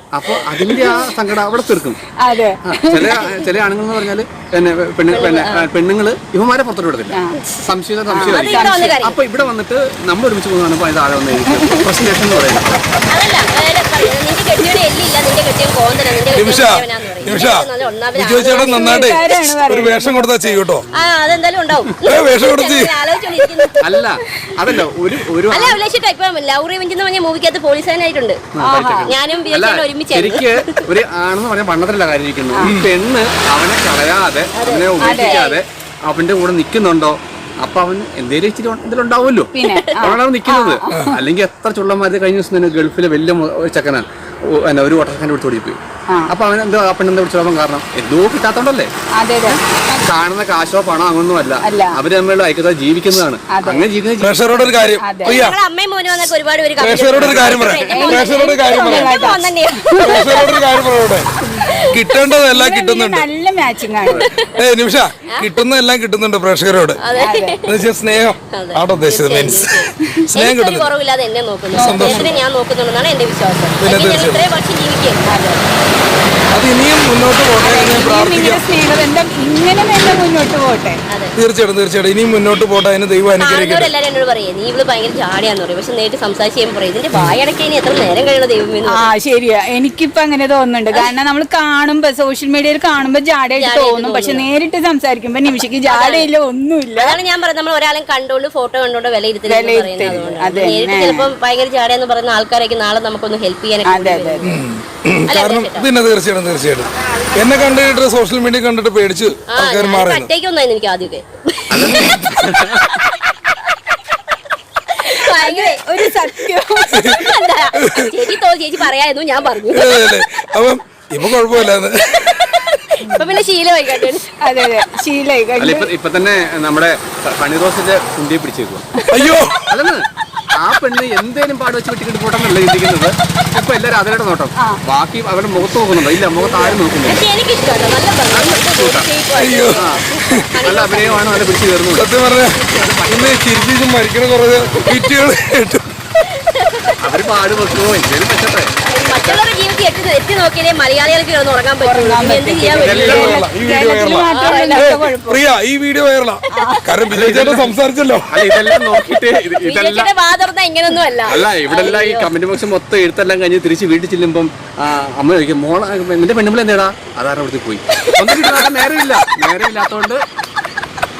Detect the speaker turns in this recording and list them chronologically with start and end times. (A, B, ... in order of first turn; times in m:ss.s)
0:00.1-0:02.0 A
0:00.6-0:01.0 B
0:02.2-0:03.1 C
0:02.6-0:12.9 A
0:05.1-0:05.7 D
0:07.1-0:07.4 C
0:08.1-0:08.9 C
0:08.2-0:09.2 D
0:13.1-0:19.2 D
0:16.3-0:20.8 B
0:18.5-0:20.6 C
0:20.9-0:23.8 D
0:22.0-0:22.9 B
0:23.8-0:25.8 A
0:25.5-0:28.4 D
0:28.6-0:48.9 A
0:28.6-0:29.1 C
0:29.0-0:30.8 D
0:32.6-0:32.9 B
0:34.5-0:35.6 D
0:35.0-0:35.4 C
0:39.5-0:41.1 C
0:39.6-0:40.0 D
0:49.2-0:49.6 C
0:49.4-0:54.8 A
0:51.6-0:52.0 C
0:53.5-0:53.8 C
0:54.2-0:55.6 B
0:55.0-0:55.4 C
0:55.2-1:00.7 D
0:56.8-0:59.2 B
0:57.2-0:57.7 A
0:57.8-1:00.4 C
1:00.0-1:01.3 B
1:01.5-1:02.2 D
1:01.9-1:03.3 B
1:02.3-1:04.3 C
1:04.1-1:04.5 D
1:04.5-1:07.0 B
1:07.0-1:07.8 D
1:07.1-1:07.6 C
1:07.6-1:10.9 B
1:08.5-1:15.3 D
1:11.8-1:12.3 C
1:11.8-1:12.4 B
1:13.8-1:14.5 B
1:15.2-1:15.6 C
1:16.5-1:18.6 B
1:17.6-1:21.0 C
1:21.1-1:21.3 D
1:21.4-1:23.9 B
1:23.4-1:29.1 D
1:28.9-1:37.1 C
1:33.6-1:34.5 D
1:35.9-1:36.3 D
1:37.0-1:44.6 D
1:39.5-1:41.3 C
1:43.8-1:44.5 C
1:44.4-1:50.3 B
1:45.3-1:45.9 D
1:47.5-1:47.9 C
1:49.5-1:52.1 D
1:51.7-1:52.9 A
1:51.9-1:52.4 B
1:52.9-1:53.2 D
1:55.0-1:56.2 D
1:55.2-1:57.2 C
1:56.9-1:57.2 B
1:57.0-2:00.0 D
1:57.8-1:58.2 B
1:59.7-2:03.1 B
2:03.0-2:03.3 C
2:03.1-2:04.3 D
2:04.4-2:05.9 C
2:05.6-2:08.8 A
2:09.1-2:09.7 B
2:09.7-2:17.2 A
2:17.0-2:21.4 D
2:18.3-2:19.1 A
2:19.4-2:20.4 B
2:19.7-2:20.0 A
2:20.6-2:22.1 A
2:21.9-2:25.8 B
2:22.5-2:22.9 D
2:22.7-2:23.6 A
2:24.6-2:25.0 A
2:26.4-2:27.2 D
2:27.0-2:29.4 A
2:28.8-2:33.4 D
2:31.8-2:35.4 C
2:32.8-2:33.3 A
2:33.0-2:38.5 B
2:34.3-2:34.9 D
2:36.5-2:36.8 C
2:37.1-2:37.8 A
2:38.3-2:40.1 A
2:39.6-2:42.3 D
2:41.2-2:50.2 A